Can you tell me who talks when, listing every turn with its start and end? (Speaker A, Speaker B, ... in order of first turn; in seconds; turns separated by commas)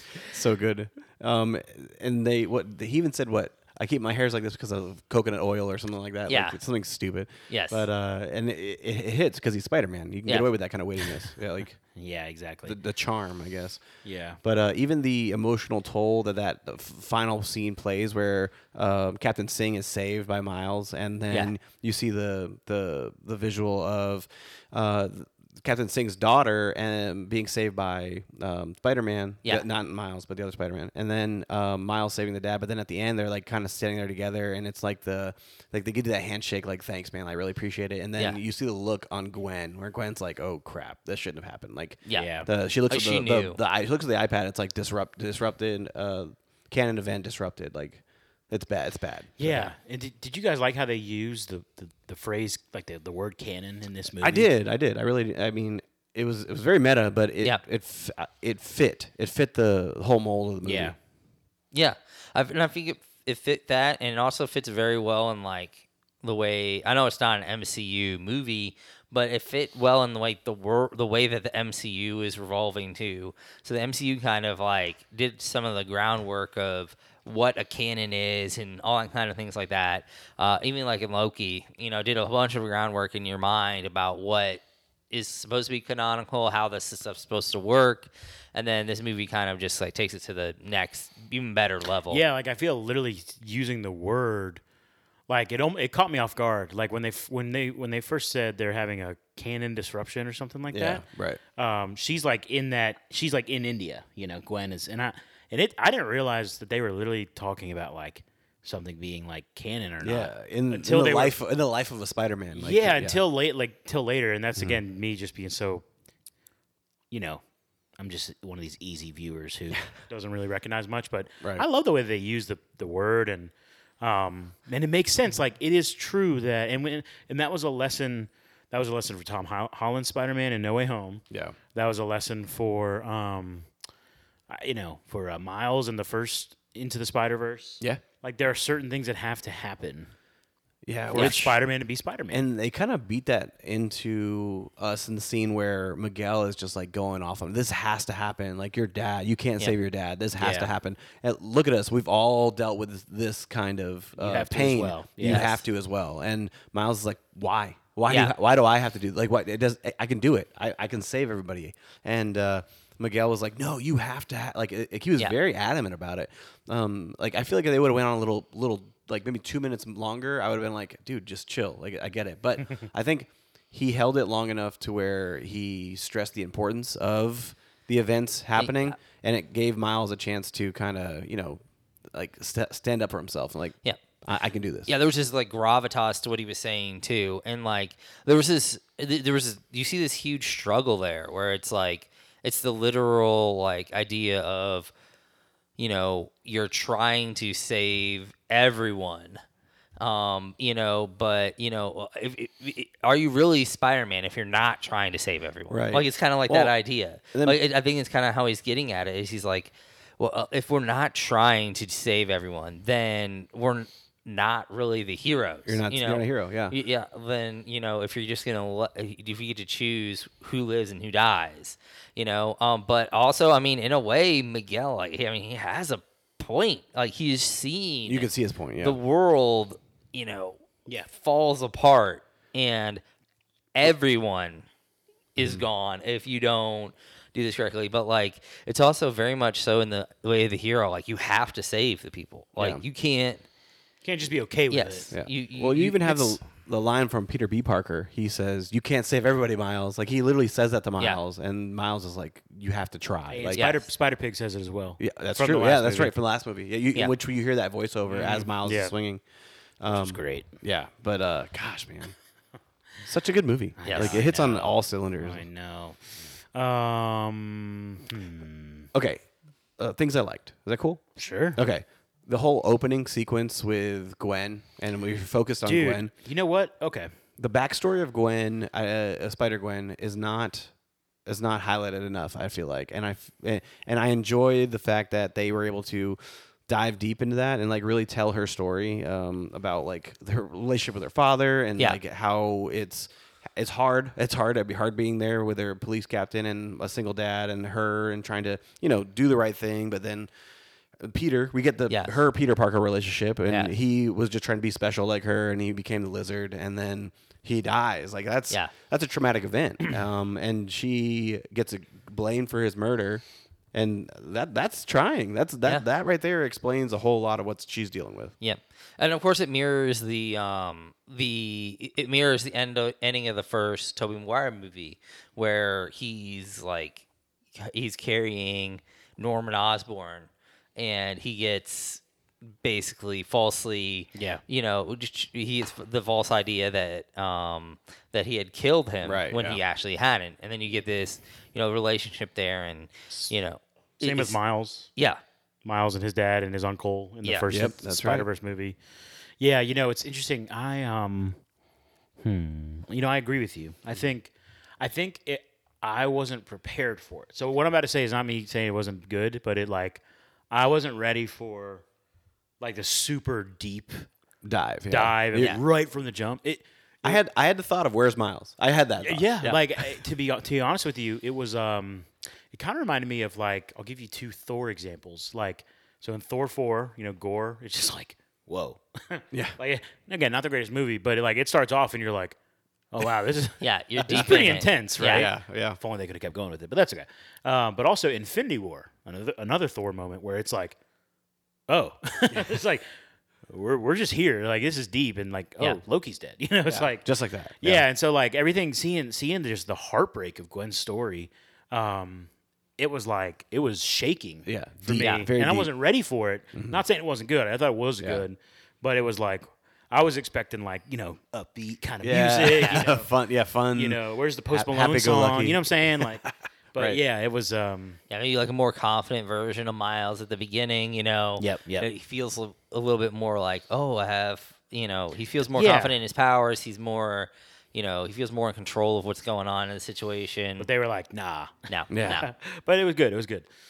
Speaker A: 0.2-11.8, Speaker B: 6.3-6.6, Speaker B: 7.5-7.8, Speaker C: 11.9-12.8, Speaker A: 12.7-13.8, Speaker C: 14.0-14.4, Speaker A: 14.4-49.4, Speaker B: 42.0-43.6, Speaker C: 42.1-42.5, Speaker C: 49.4-54.5, Speaker B: 49.4-49.7, Speaker A: 54.2-60.9, Speaker C: 60.6-61.0, Speaker B: 61.7-92.2, Speaker C: 92.1-94.6, Speaker C: 95.3-101.0, Speaker A: 100.7-101.4, Speaker C: 101.6-111.4, Speaker A: 110.0-113.2, Speaker C: 112.5-115.8, Speaker C: 117.1-117.4, Speaker C: 118.0-131.2, Speaker A: 131.3-131.6, Speaker C: 131.7-133.7, Speaker C: 134.5-140.1, Speaker A: 140.8-141.6, Speaker C: 141.1-142.4, Speaker A: 142.3-181.6, Speaker C: 150.4-150.7, Speaker C: 154.2-155.6, Speaker B: 155.2-155.5, Speaker B: 158.1-158.3, Speaker B: 178.6-178.9, Speaker A: 182.1-184.9, Speaker B: 184.8-194.9, Speaker B: 195.8-199.4, Speaker B: 200.0-228.3, Speaker A: 205.7-206.7, Speaker A: 207.3-207.6, Speaker A: 215.7-216.7, Speaker A: 228.1-229.0, Speaker B: 228.8-233.0, Speaker B: 233.7-234.7, Speaker B: 235.3-243.4, Speaker A: 235.4-235.6, Speaker A: 242.6-242.8, Speaker C: 244.0-245.1, Speaker B: 244.7-246.3, Speaker A: 245.1-253.7, Speaker C: 253.3-256.1, Speaker B: 253.5-253.8, Speaker A: 255.0-259.2, Speaker C: 258.1-258.9, Speaker A: 259.8-262.1, Speaker C: 259.9-260.5, Speaker A: 263.0-265.4, Speaker C: 263.8-268.9, Speaker B: 263.8-264.3, Speaker A: 268.9-269.2, Speaker A: 269.8-271.0, Speaker C: 271.2-271.6, Speaker A: 271.5-276.1, Speaker C: 275.6-277.1, Speaker A: 277.4-280.7, Speaker A: 281.2-300.3, Speaker A: 301.0-318.3, Speaker B: 301.9-302.1, Speaker B: 318.4-327.0, Speaker B: 327.6-332.0, Speaker B: 332.6-344.4, Speaker C: 334.1-334.4, Speaker A: 339.0-339.6, Speaker C: 344.0-344.9, Speaker B: 344.9-345.2, Speaker C: 345.6-348.8, Speaker A: 347.5-348.2, Speaker C: 349.4-351.4, Speaker C: 352.2-361.8, Speaker C: 362.6-364.1, Speaker A: 364.4-365.6, Speaker C: 364.9-367.2, Speaker A: 367.0-370.0, Speaker C: 369.0-382.4, Speaker A: 379.3-379.6, Speaker C: 382.9-390.8, Speaker B: 383.6-385.3, Speaker A: 384.1-384.4, Speaker A: 385.0-385.8, Speaker C: 391.7-392.9, Speaker C: 393.5-397.0, Speaker A: 396.7-397.9, Speaker C: 397.6-413.1, Speaker A: 404.4-405.7, Speaker B: 405.0-405.3, Speaker A: 406.6-406.8, Speaker A: 412.0-417.0, Speaker B: 412.5-412.8, Speaker C: 413.7-418.0, Speaker B: 418.1-430.7, Speaker C: 421.4-421.9, Speaker C: 425.5-425.9, Speaker C: 430.6-433.5, Speaker B: 431.7-432.3, Speaker A: 431.9-432.2